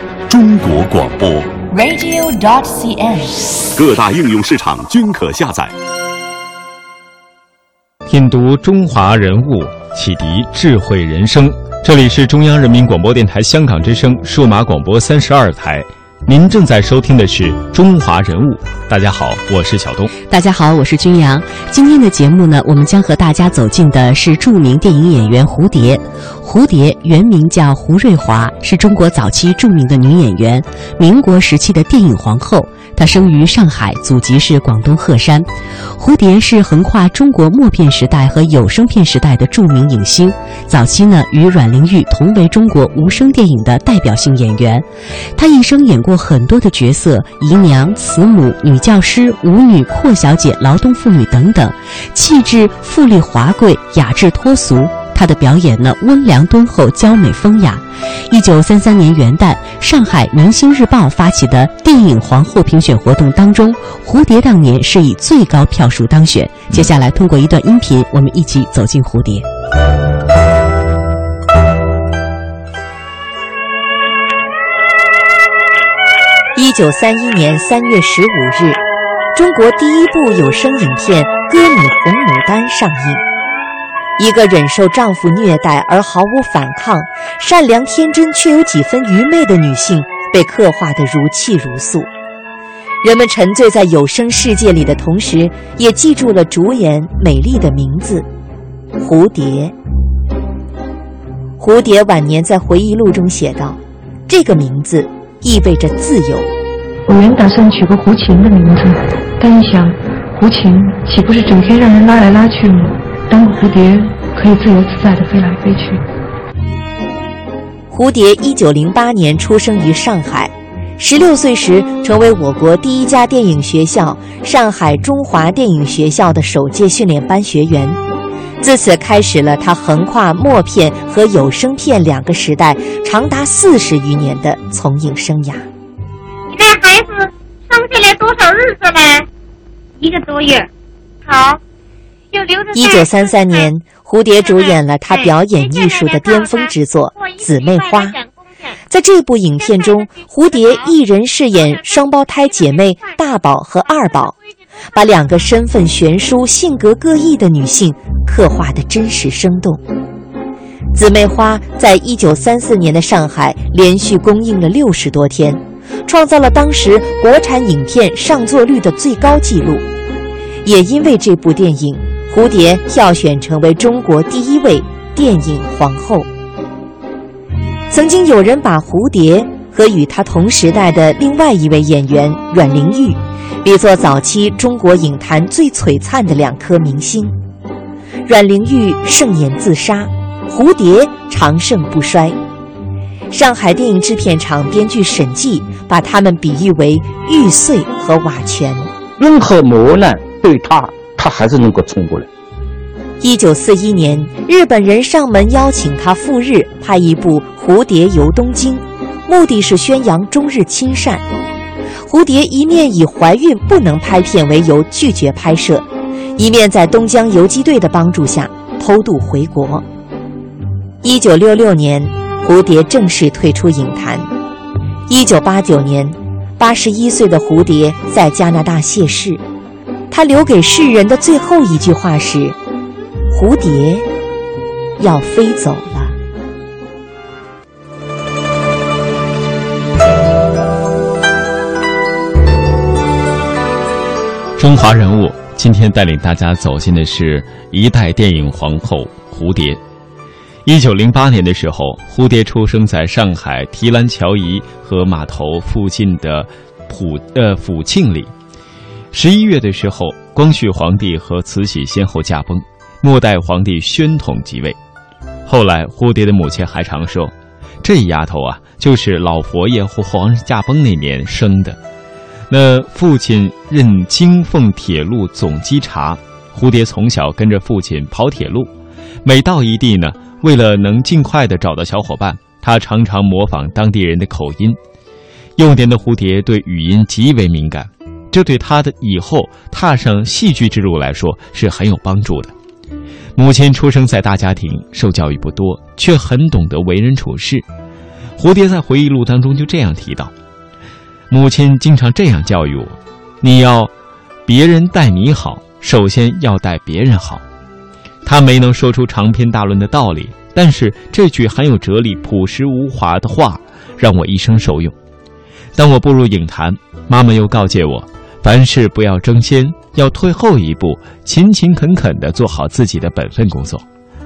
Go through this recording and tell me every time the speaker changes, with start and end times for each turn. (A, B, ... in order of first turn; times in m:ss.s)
0:00.3-0:01.5 A
0:01.7-0:03.7 B
0:03.8-0:05.7 A
0:08.1-0:20.1 C
0:20.3-1:09.5 D
1:16.6-1:18.8 E
1:19.3-1:23.2 E
1:24.2-1:32.1 E
1:33.0-1:38.3 E
1:39.0-1:39.8 E
1:41.6-1:46.5 E
1:47.1-1:56.0 F
1:57.9-2:08.0 E
2:08.6-2:15.7 E
2:16.5-2:19.3 G
2:20.0-2:20.7 G
2:21.2-2:21.6 G
2:22.3-2:23.7 G
2:22.7-2:28.2 E
2:24.4-2:28.8 G
2:28.9-2:34.4 E
2:29.7-2:30.9 G
2:31.6-2:33.2 G
2:34.9-2:39.8 E
2:40.9-2:49.9 E
2:50.6-2:56.3 E
2:57.9-3:07.4 E
3:08.3-3:12.4 E
3:13.3-3:18.9 E
3:19.2-3:22.3 H
3:23.2-3:31.2 E
3:32.0-3:39.8 E
3:41.0-3:44.3 E
3:45.1-3:49.4 E
3:50.1-3:52.6 E
3:53.3-3:54.1 E
3:55.0-3:56.2 E
4:04.6-4:09.8 C
4:10.6-4:18.3 C
4:19.1-4:24.8 C
4:25.5-4:31.8 C
4:32.5-4:38.7 C
4:39.2-4:44.8 C
4:45.6-4:52.5 C
4:53.4-4:57.6 C
4:58.4-5:00.3 C
5:01.3-5:03.9 C
5:04.5-5:07.4 C
5:08.2-5:15.0 C
5:15.8-5:23.8 C